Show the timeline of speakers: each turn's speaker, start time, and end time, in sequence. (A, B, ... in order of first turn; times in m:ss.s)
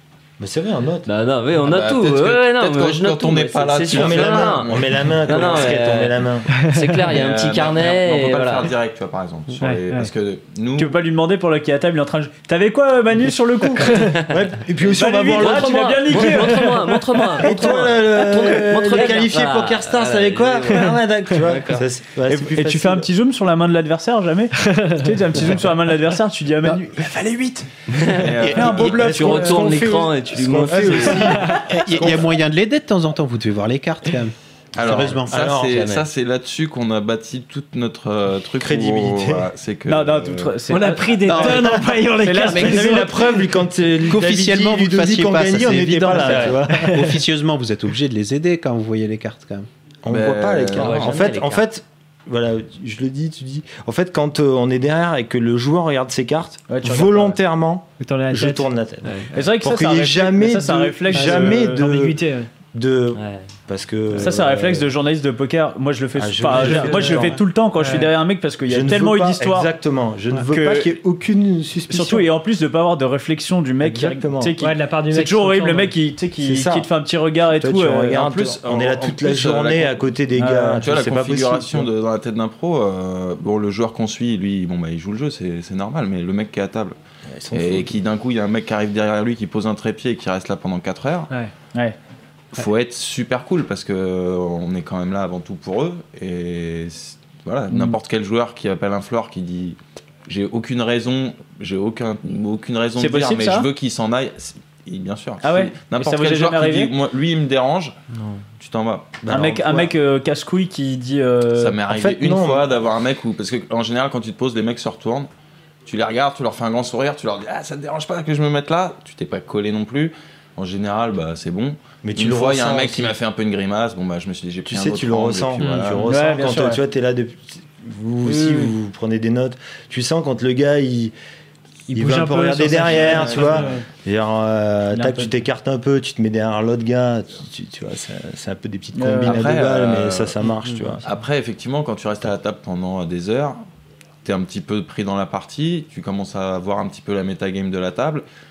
0:00.4-0:01.1 A
0:01.0-0:08.7 B
0:01.6-0:05.9 C
0:03.9-0:06.5 A
0:06.6-0:07.0 D
0:07.1-0:11.0 C
0:09.6-0:10.1 D
0:10.8-0:14.1 E
0:14.1-0:16.4 A
0:14.8-0:16.7 E
0:15.4-0:21.8 B
0:17.4-0:23.1 A
0:22.3-0:27.7 E
0:24.6-0:25.5 D
0:27.9-0:31.4 B
0:28.1-0:29.0 C
0:28.5-0:29.8 E
0:28.6-0:32.2 A
0:30.7-0:31.2 C
0:31.7-0:35.3 F
0:34.7-0:40.6 C
0:35.3-0:35.9 A
0:35.7-0:36.0 B
0:38.6-0:39.4 A
0:39.9-0:43.2 E
0:40.7-0:43.2 D
0:41.3-0:41.8 F
0:42.6-0:46.9 A
0:44.1-0:49.7 F
0:46.1-0:46.5 E
0:46.8-0:47.1 D
0:50.0-1:02.2 A
0:50.1-0:51.2 C
0:50.7-0:51.6 B
0:56.7-0:57.4 E
0:58.0-0:59.3 D
0:59.3-1:01.8 E
1:01.1-1:02.5 D
1:02.7-1:04.9 A
1:03.1-1:03.4 B
1:04.1-1:09.7 E
1:06.1-1:07.4 A
1:06.6-1:08.1 D
1:08.7-1:12.3 A
1:10.5-1:10.9 E
1:11.9-1:18.2 E
1:13.8-1:14.5 A
1:14.6-1:15.9 D
1:16.4-1:16.9 A
1:17.5-1:21.9 A
1:18.2-1:20.0 C
1:20.4-1:20.8 E
1:20.8-1:26.9 C
1:27.3-1:27.9 A
1:27.5-1:31.3 C
1:32.5-1:48.0 C
1:37.7-1:38.0 E
1:43.0-1:43.7 E
1:45.4-1:46.9 E
1:48.5-1:49.2 C
1:49.2-1:49.9 A
1:49.3-1:51.8 E
1:51.6-1:55.3 C
1:51.9-1:52.6 A
1:55.8-2:06.1 C
2:02.0-2:03.1 A
2:04.6-2:11.1 A
2:06.1-2:06.8 E
2:08.2-2:08.7 E
2:11.9-2:13.8 D
2:11.9-2:21.0 A
2:12.6-2:13.5 E
2:12.8-2:13.6 C
2:14.9-2:15.4 E
2:18.9-2:19.4 E
2:19.2-2:20.4 C
2:21.0-2:23.6 C
2:24.2-2:28.2 C